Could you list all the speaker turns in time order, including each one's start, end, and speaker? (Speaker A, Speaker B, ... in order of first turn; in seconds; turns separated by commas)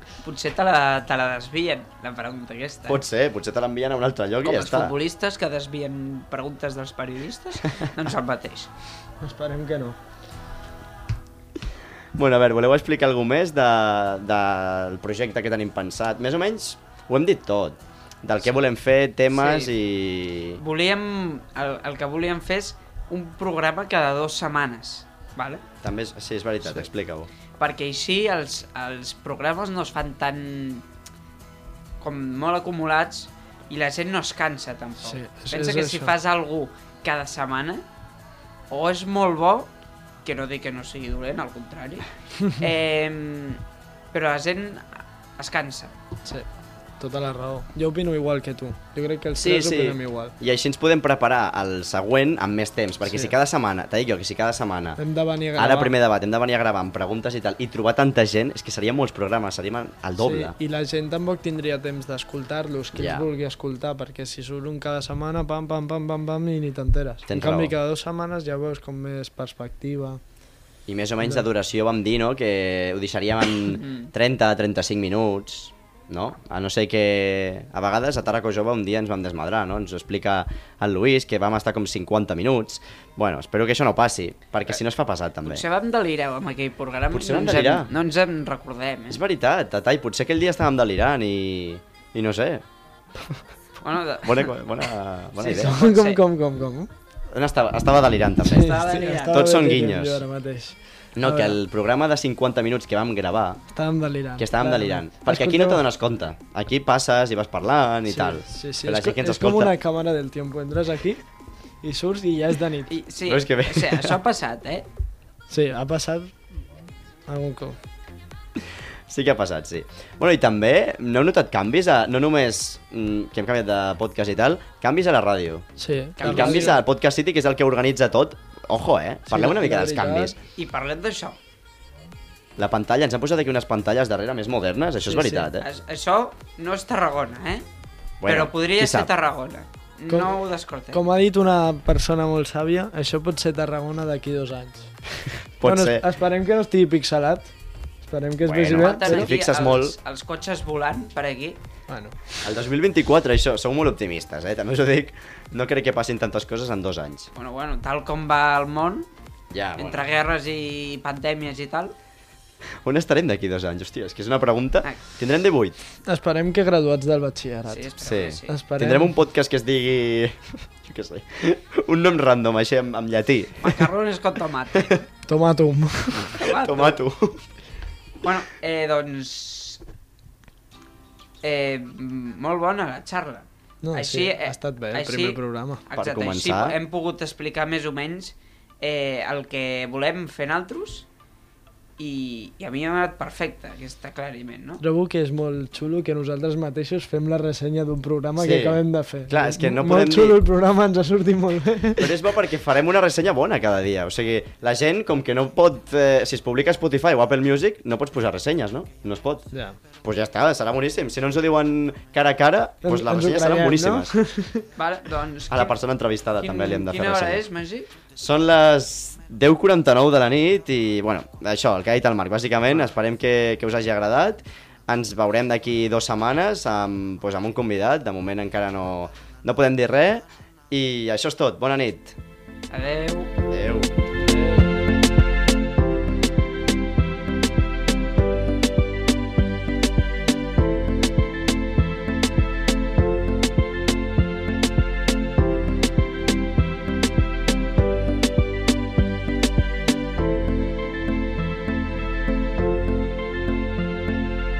Speaker A: 0.2-3.0, Speaker B: 2.9-4.9, Speaker A: 4.4-8.7, Speaker C: 9.2-10.0, Speaker B: 12.1-20.6, Speaker A: 19.3-19.7, Speaker A: 20.6-25.6, Speaker B: 25.8-27.3, Speaker A: 27.6-30.9, Speaker A: 32.0-37.8, Speaker C: 35.0-36.1, Speaker A: 38.7-39.7, Speaker A: 40.2-43.6, Speaker A: 44.1-45.9, Speaker C: 47.0-50.4, Speaker B: 49.4-55.0, Speaker C: 53.1-53.3, Speaker C: 55.0-55.9, Speaker B: 55.6-60.5, Speaker C: 60.2-70.2, Speaker B: 62.9-63.3, Speaker B: 67.3-67.7, Speaker B: 70.9-85.6, Speaker A: 73.7-74.1, Speaker A: 85.4-89.2, Speaker B: 87.1-87.9, Speaker B: 89.1-92.6, Speaker A: 93.8-94.6, Speaker B: 94.2-95.8, Speaker C: 95.4-96.9, Speaker A: 95.4-96.2, Speaker B: 97.3-100.2, Speaker C: 98.4-101.6, Speaker A: 98.5-99.5, Speaker B: 101.2-103.6, Speaker C: 103.7-105.8, Speaker B: 104.4-109.8, Speaker C: 108.1-111.2, Speaker C: 111.8-112.9, Speaker A: 112.9-114.9, Speaker B: 113.2-114.2, Speaker C: 115.5-116.4, Speaker C: 117.3-117.8, Speaker B: 119.1-125.6, Speaker C: 125.8-126.8, Speaker A: 126.2-126.8, Speaker B: 126.2-130.4, Speaker C: 129.3-130.3, Speaker A: 130.6-131.4, Speaker B: 132.6-135.7, Speaker C: 135.1-135.5, Speaker A: 135.6-137.6, Speaker B: 138.2-139.1, Speaker A: 138.2-141.0, Speaker C: 140.1-140.4, Speaker C: 140.9-144.9, Speaker B: 145.2-146.0, Speaker C: 145.6-149.3, Speaker B: 148.4-149.9, Speaker A: 148.7-151.6, Speaker C: 151.9-152.3, Speaker B: 152.4-157.3, Speaker A: 157.3-159.1, Speaker B: 159.5-160.1, Speaker A: 159.8-161.9, Speaker B: 162.8-165.8, Speaker C: 166.1-167.9, Speaker A: 167.7-168.6, Speaker B: 168.0-173.9, Speaker C: 168.5-169.2, Speaker A: 173.6-175.0, Speaker B: 174.7-175.0, Speaker C: 175.3-176.4, Speaker B: 176.1-177.4, Speaker A: 176.3-177.0, Speaker A: 178.2-179.8, Speaker A: 181.4-191.1, Speaker C: 183.8-185.8, Speaker B: 185.9-186.8, Speaker A: 192.0-194.8, Speaker C: 194.8-202.1, Speaker B: 198.4-200.4, Speaker B: 202.0-209.5, Speaker C: 209.5-209.8, Speaker B: 210.0-214.1, Speaker C: 212.8-214.7, Speaker A: 214.8-215.8, Speaker B: 215.5-217.4, Speaker A: 216.4-217.9, Speaker B: 218.1-232.2, Speaker A: 232.7-233.3, Speaker B: 233.5-233.9